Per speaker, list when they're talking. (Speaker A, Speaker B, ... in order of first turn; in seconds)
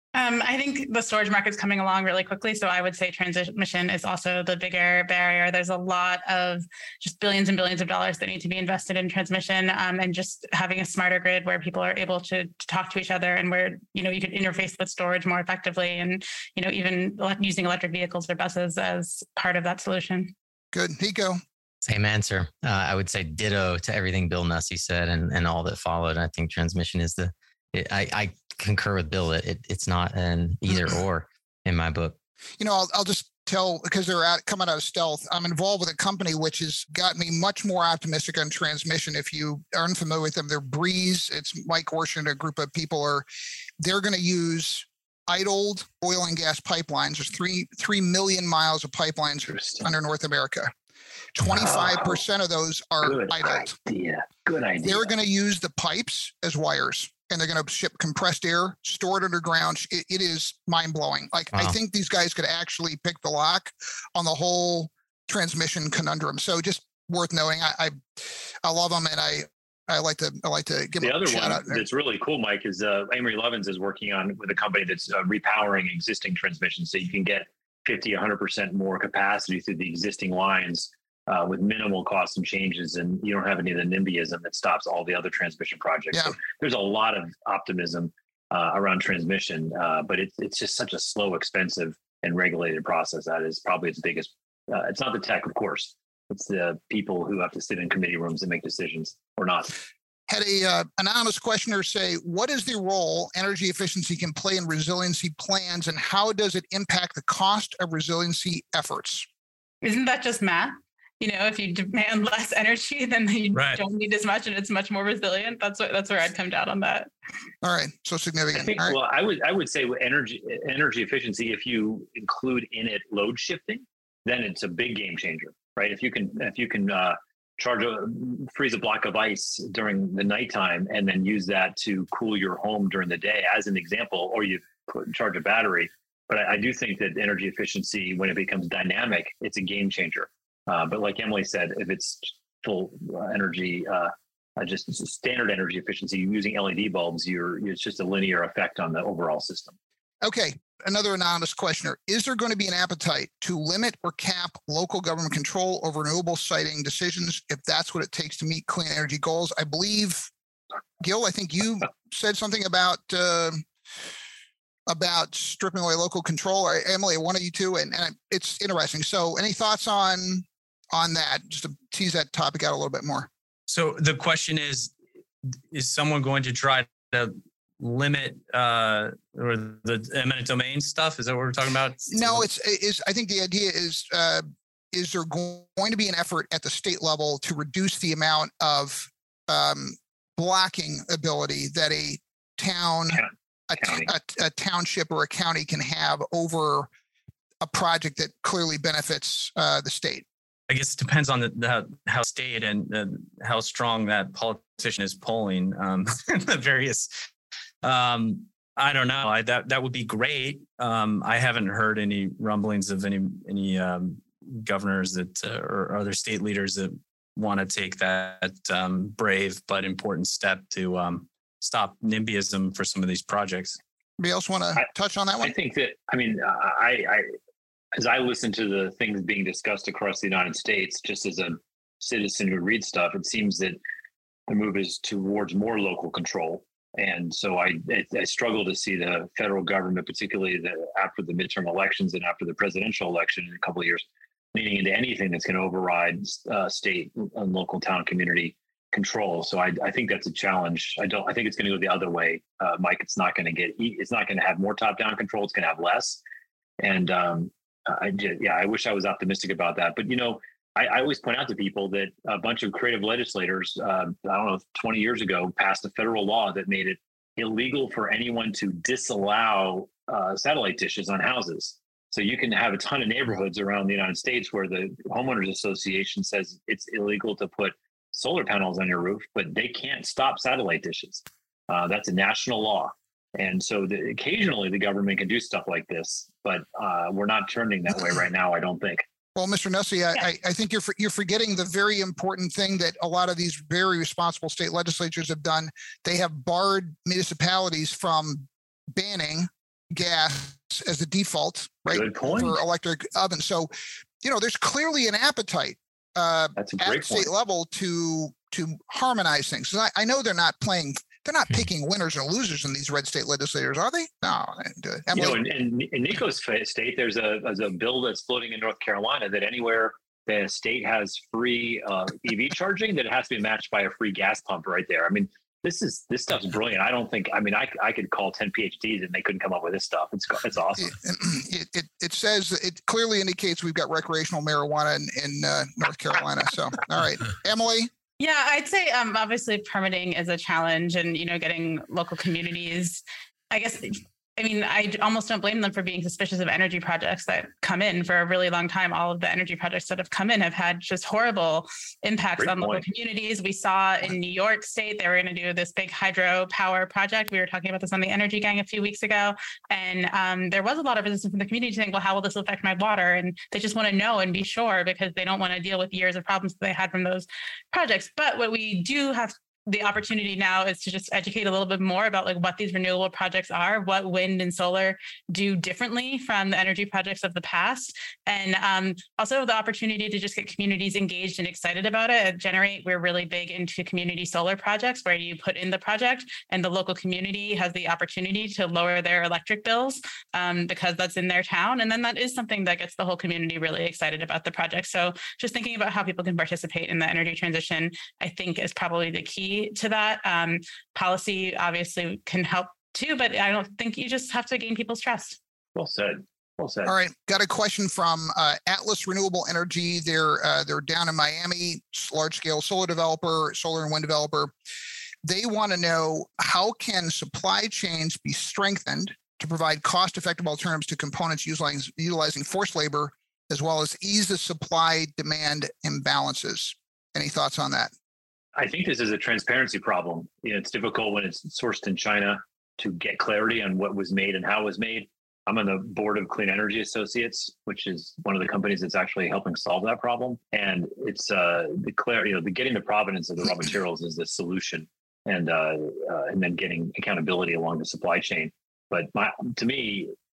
Speaker A: 0.1-20.3, 109.8-117.1, 338.2-405.4
Speaker B: 20.7-21.4, 32.6-43.2, 43.8-50.7, 51.4-53.7, 54.8-68.0, 68.6-71.8, 100.3-109.3, 117.6-119.0, 150.2-160.3, 161.0-163.6, 164.9-173.3, 182.1-196.9, 197.6-200.2, 224.2-225.5, 289.4-303.7, 304.2-315.4, 330.8-337.9, 406.9-414.5, 415.2-427.9
Speaker C: 21.9-32.1
Speaker D: 49.5-49.9, 51.5-52.2, 53.0-55.1, 71.0-99.7, 118.5-149.8, 193.1-194.1, 225.4-227.3, 228.0-233.8, 234.5-256.2, 256.8-289.0, 301.9-302.6, 306.6-307.3, 315.1-331.0, 352.4-352.8, 405.8-406.9, 428.6-450.1
Speaker E: 113.5-113.8, 173.7-174.9, 175.7-182.5, 200.7-207.3, 207.8-223.8